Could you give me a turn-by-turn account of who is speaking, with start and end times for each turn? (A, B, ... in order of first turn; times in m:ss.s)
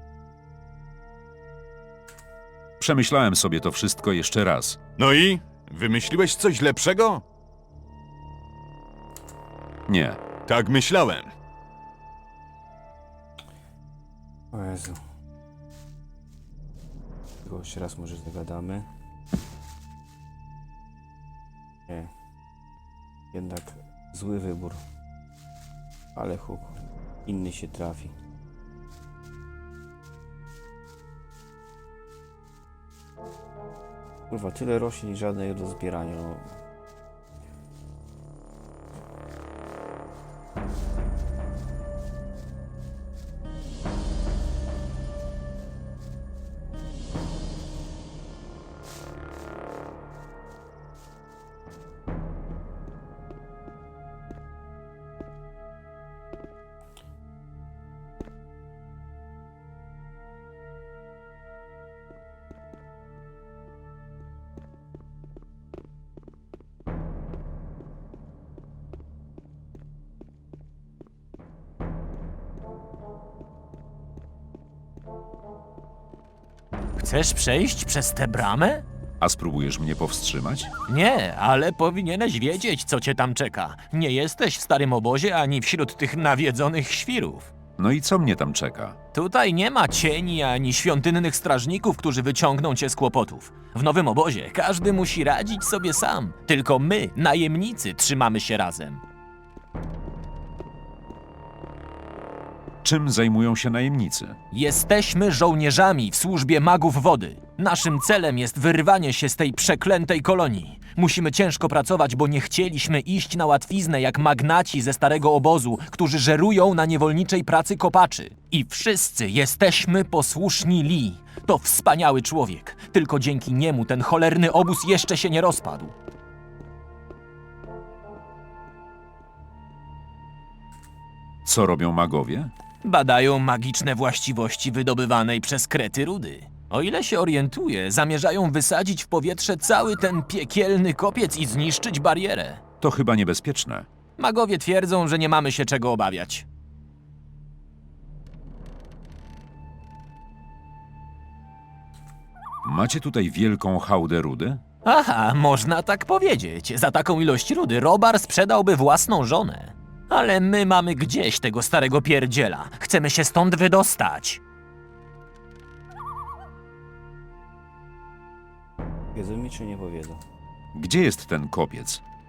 0:02.8-0:04.8 A
0:05.0-0:07.2 B
0:09.9-0:10.2 A
0:10.4-0:11.3 B
0:14.5-0:15.0 C
0:17.4-0:18.8 C
0:23.3-0:24.8 C
0:26.1-0:28.1 C
0:34.3-0:36.6 C
1:17.0-1:18.8 D
1:19.2-1:20.7 A
1:20.9-1:27.5 D
1:27.8-1:29.0 A
1:29.1-1:39.0 D
1:42.8-1:44.4 A
1:44.5-2:05.9 D
2:11.4-2:12.5 A
2:12.8-2:22.6 D
2:22.8-2:23.9 A
2:24.2-2:26.4 D
2:32.6-2:34.6 A
2:34.8-2:44.4 D
2:49.1-2:50.2 C
2:50.7-2:52.0 A